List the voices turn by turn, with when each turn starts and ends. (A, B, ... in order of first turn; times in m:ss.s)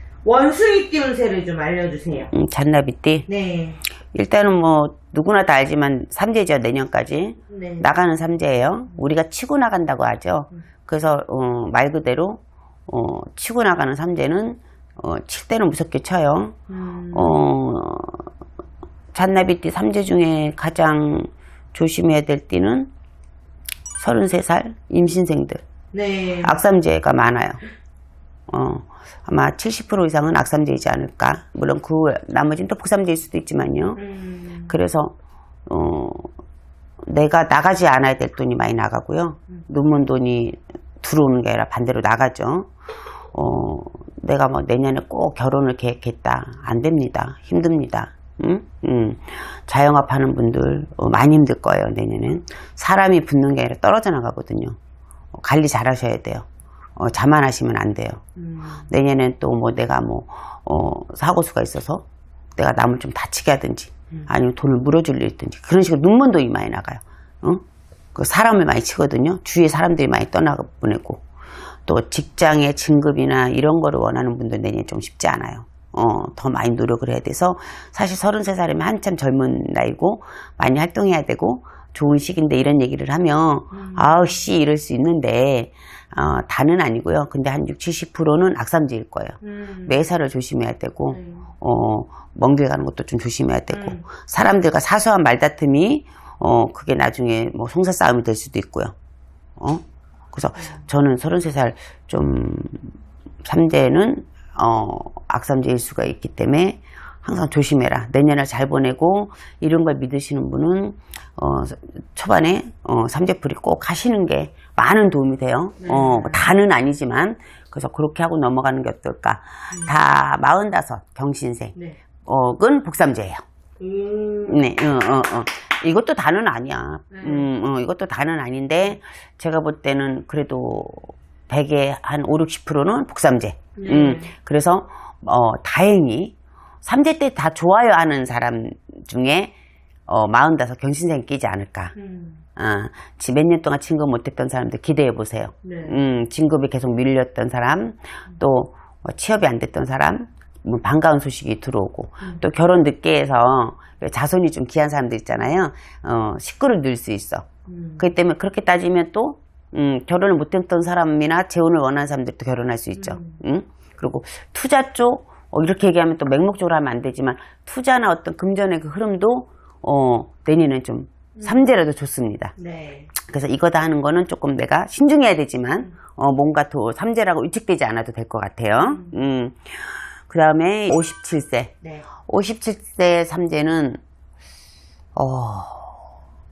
0:00.2-0:02.3 A
0:02.3-0:03.3 B
0:03.3-0:03.8 A
0:04.1-0:16.6 B
0:07.5-0:07.9 A
0:16.7-0:17.4 A
0:17.1-0:18.3 B
0:19.1-0:22.9 B
0:24.0-0:25.6 B
0:25.9-0:26.6 A
0:26.4-0:27.6 B
0:28.5-0:34.0 B
0:34.0-0:34.7 A
0:34.7-0:35.2 B
0:35.7-0:36.3 B
0:37.0-0:42.7 B
0:43.3-0:54.8 B
0:55.3-0:56.4 B
0:57.0-0:58.2 B
0:58.4-0:58.9 A
0:58.9-1:07.6 B
1:08.1-1:11.2 B
1:11.8-1:38.9 B
1:23.7-1:24.4 A
1:29.4-1:30.0 A
1:31.1-1:31.4 A
1:33.7-1:34.0 A
1:39.6-2:03.4 B
1:40.6-1:40.8 A
1:55.8-1:56.4 A
2:03.8-2:04.7 A
2:04.4-2:19.5 B
2:07.1-2:07.5 A
2:13.8-2:14.3 A
2:20.1-2:21.9 B
2:21.9-2:22.4 A
2:22.6-2:52.5 B
2:25.6-2:26.0 A
2:37.7-2:38.0 A
2:43.0-2:43.4 A
2:51.4-2:51.7 A
2:52.6-2:53.1 A
2:53.1-3:04.0 B
2:58.8-2:59.2 A
3:01.8-3:02.1 A
3:05.1-3:06.0 B